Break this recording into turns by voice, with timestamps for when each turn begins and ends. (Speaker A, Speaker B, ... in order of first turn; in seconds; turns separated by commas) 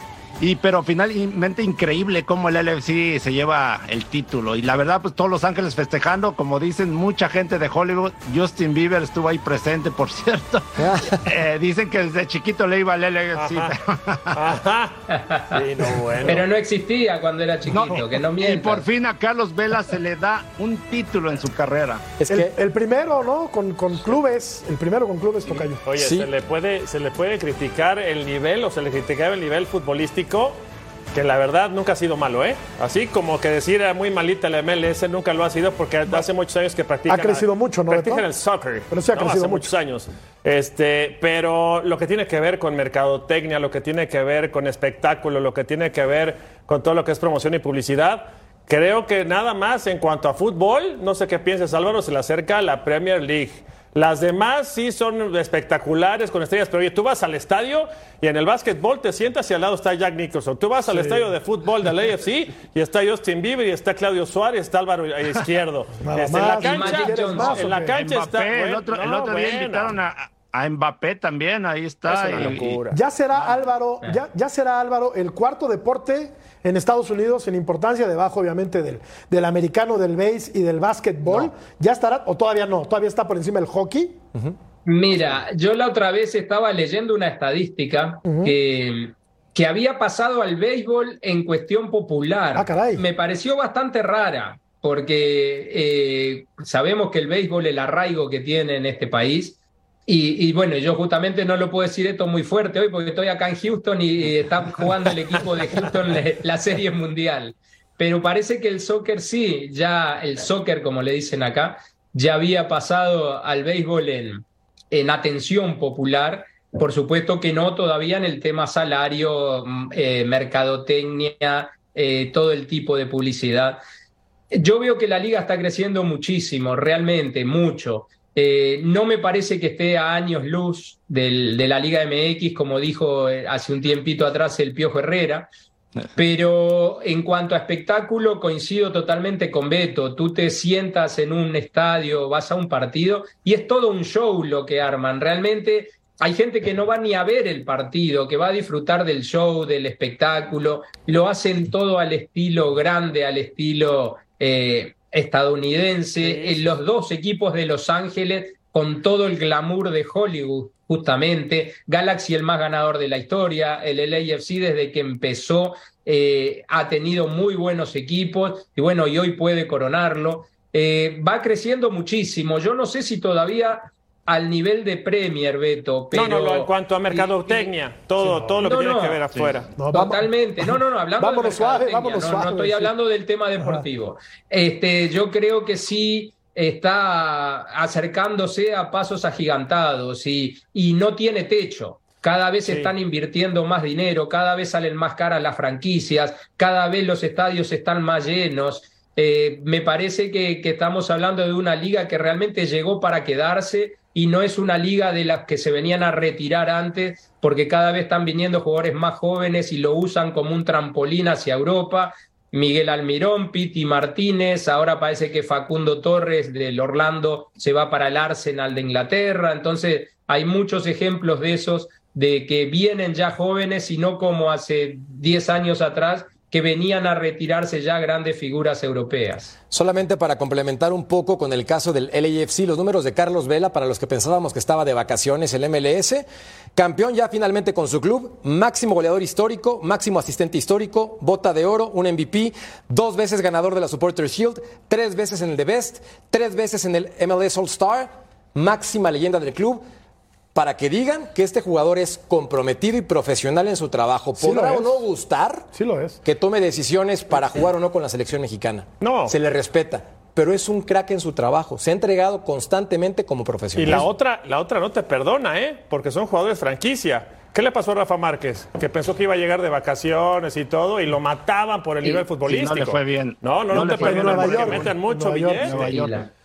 Speaker A: 0.4-14.4, Speaker B: 10.8-11.2, Speaker C: 13.3-13.7, Speaker C: 14.3-15.0, Speaker D: 15.1-15.6, Speaker C: 15.5-16.4, Speaker B: 15.8-16.4, Speaker D: 16.2-18.9, Speaker A: 17.7-22.1, Speaker B: 22.2-22.5, Speaker E: 22.3-25.8, Speaker C: 25.8-30.6, Speaker B: 25.9-26.3, Speaker C: 31.1-69.9, Speaker E: 37.1-38.2, Speaker E: 38.9-39.7, Speaker E: 60.9-61.2, Speaker E: 66.0-68.0, Speaker D: 66.4-67.8, Speaker A: 68.0-72.8, Speaker C: 72.1-73.0, Speaker E: 72.9-84.3, Speaker D: 84.8-123.8, Speaker E: 88.2-88.5, Speaker E: 92.5-93.0, Speaker D: 124.5-135.5, Speaker D: 136.1-177.7, Speaker C: 156.2-156.7, Speaker C: 176.1-179.7, Speaker E: 178.2-178.7, Speaker D: 178.6-179.2, Speaker E: 179.8-182.9, Speaker D: 179.9-229.5, Speaker C: 192.7-192.9, Speaker B: 229.7-249.8, Speaker B: 250.5-255.7, Speaker E: 254.4-255.0, Speaker E: 255.7-256.2, Speaker B: 256.2-264.1, Speaker C: 259.0-259.3, Speaker C: 263.8-275.9, Speaker A: 272.4-274.9, Speaker E: 273.7-275.9, Speaker A: 275.6-276.2, Speaker D: 275.9-276.3